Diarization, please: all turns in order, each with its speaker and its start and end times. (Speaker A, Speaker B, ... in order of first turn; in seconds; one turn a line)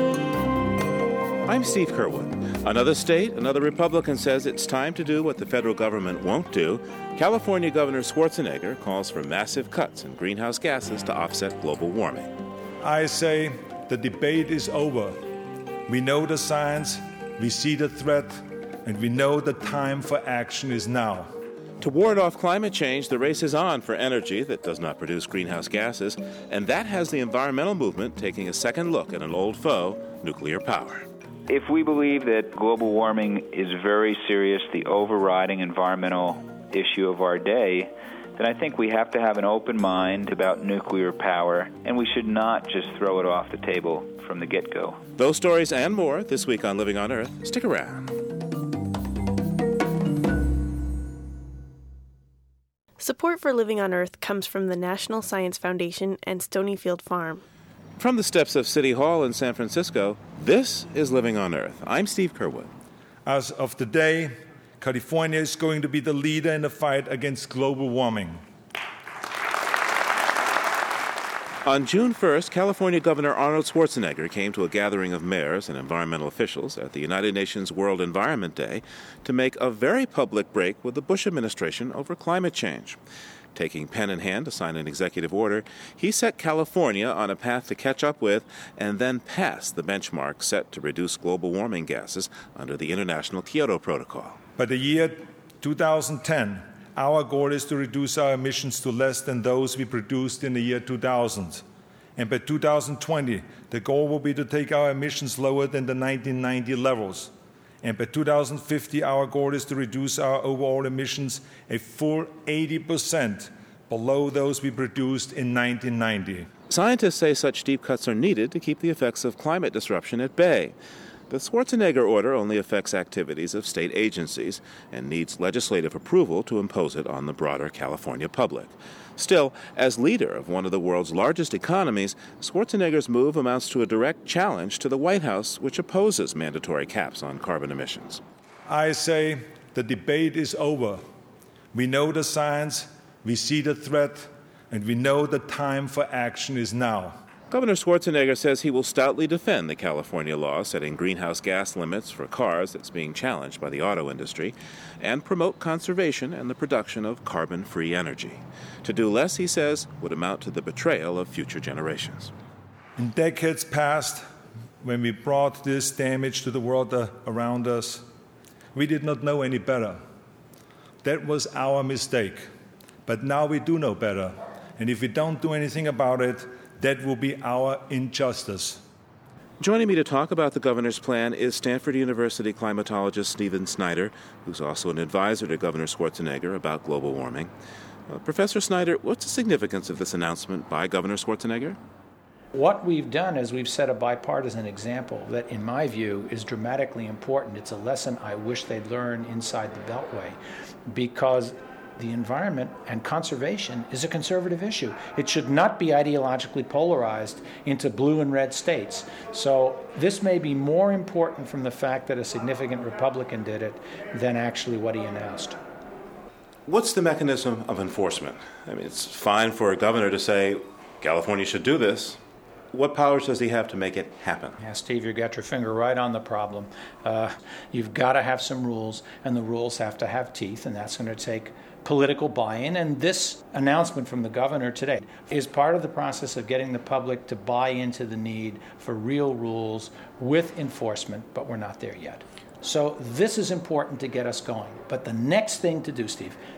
Speaker A: 1.4-12.3
Speaker B: 12.8-15.2
Speaker B: 15.9-21.3
Speaker A: 21.8-31.1
Speaker C: 31.5-45.0
Speaker A: 45.2-48.1
Speaker D: 53.0-57.4
Speaker A: 58.0-62.7
Speaker B: 63.2-68.4
Speaker A: 71.7-83.0
Speaker A: 83.5-94.4
Speaker B: 94.6-101.6
Speaker B: 102.2-107.3
Speaker B: 107.8-116.5
Speaker A: 116.7-120.7
Speaker A: 121.3-138.2
Speaker B: 138.7-141.0
Speaker B: 141.7-147.2
Speaker A: 147.5-162.3
Speaker B: 163.0-164.2
Speaker B: 164.8-168.0
Speaker B: 168.7-170.0
Speaker B: 171.0-172.5
Speaker B: 173.1-178.8
Speaker A: 179.6-187.5
Speaker A: 188.1-191.8
Speaker E: 192.5-215.6
Speaker A: 216.7-222.2
Speaker A: 222.7-224.6
Speaker E: 224.6-246.4